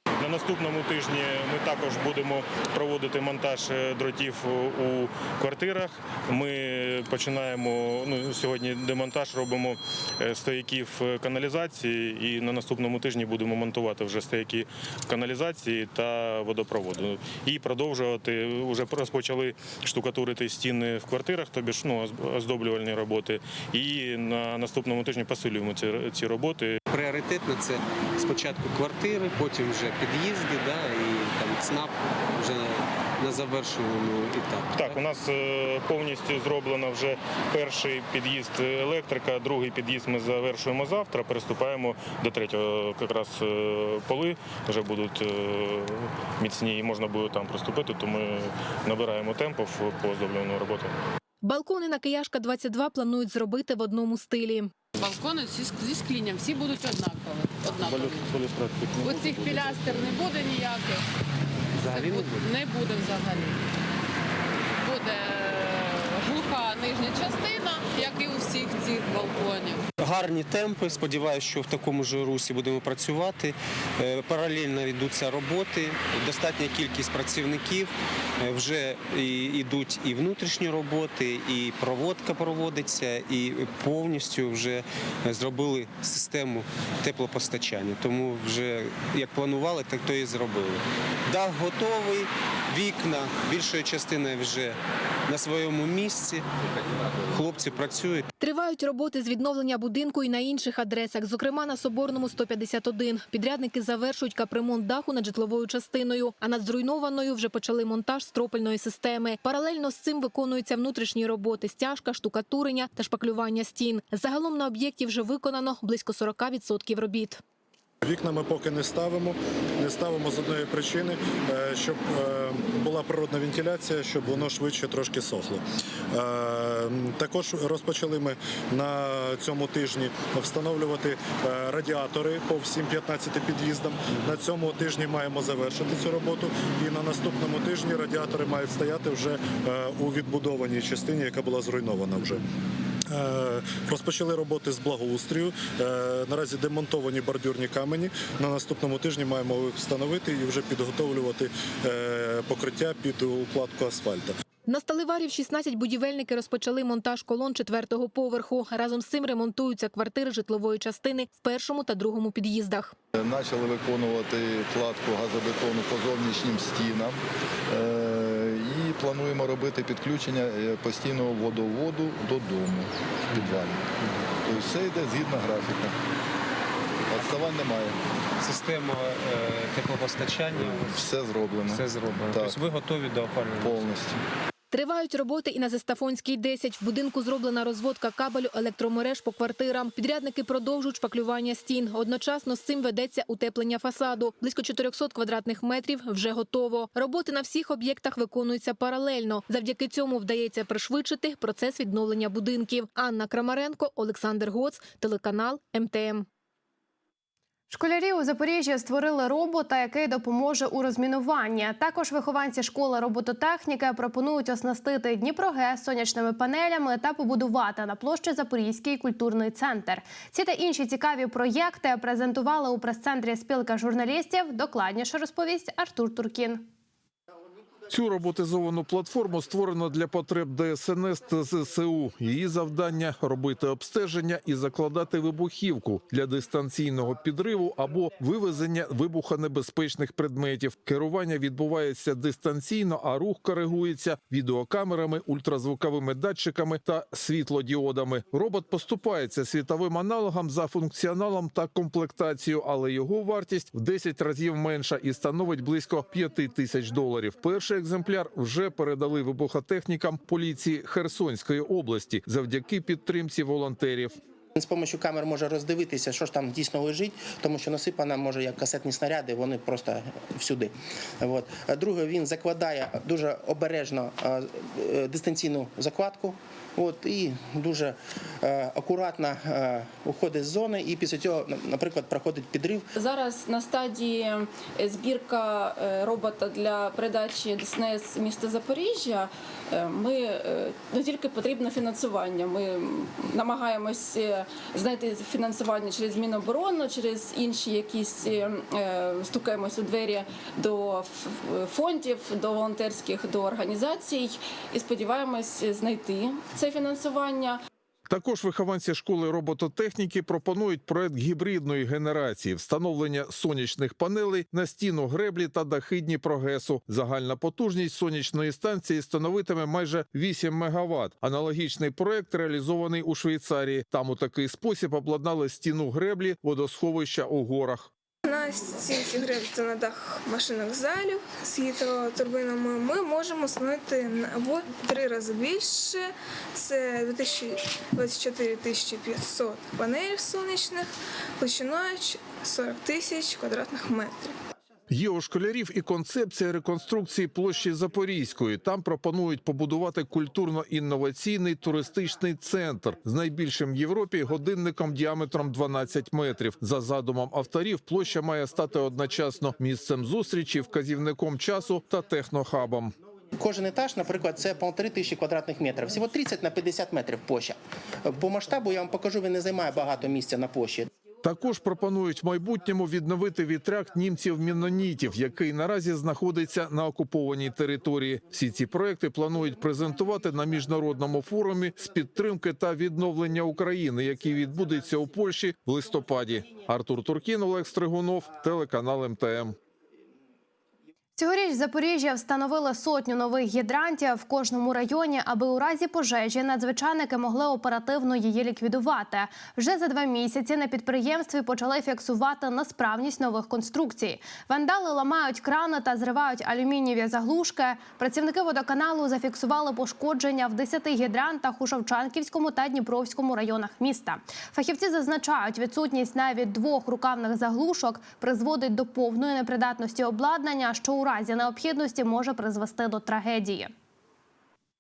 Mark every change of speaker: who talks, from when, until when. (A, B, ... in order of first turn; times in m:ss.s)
0:00.2-0:26.8 A
0:26.9-0:35.0 B
0:34.7-0:50.9 A
0:51.4-0:54.7 C
0:55.0-0:58.3 D
0:59.0-1:01.0 D
1:01.8-1:03.6 D
1:04.8-1:09.9 D
1:10.0-1:34.8 B
1:35.3-1:36.4 B
1:37.3-1:38.3 B
1:38.4-1:57.4 C
1:58.0-2:22.4 E
2:23.1-2:34.4 E
2:34.7-2:42.9 C
2:43.2-2:53.9 F
2:54.4-2:55.9 F
2:57.1-2:58.0 F
2:58.4-3:00.7 B
3:00.5-3:02.8 F
3:01.8-3:03.7 B
3:03.6-3:04.2 F
3:04.7-3:26.3 C
3:27.7-3:46.7 G
3:47.9-4:24.2 H
4:24.6-4:42.9 I
4:43.0-5:07.6 J
5:08.1-5:27.9 H
5:28.2-5:44.4 K
5:44.9-6:03.0 H
6:03.4-6:10.9 I
6:11.2-6:29.6 H
6:31.2-7:03.7 G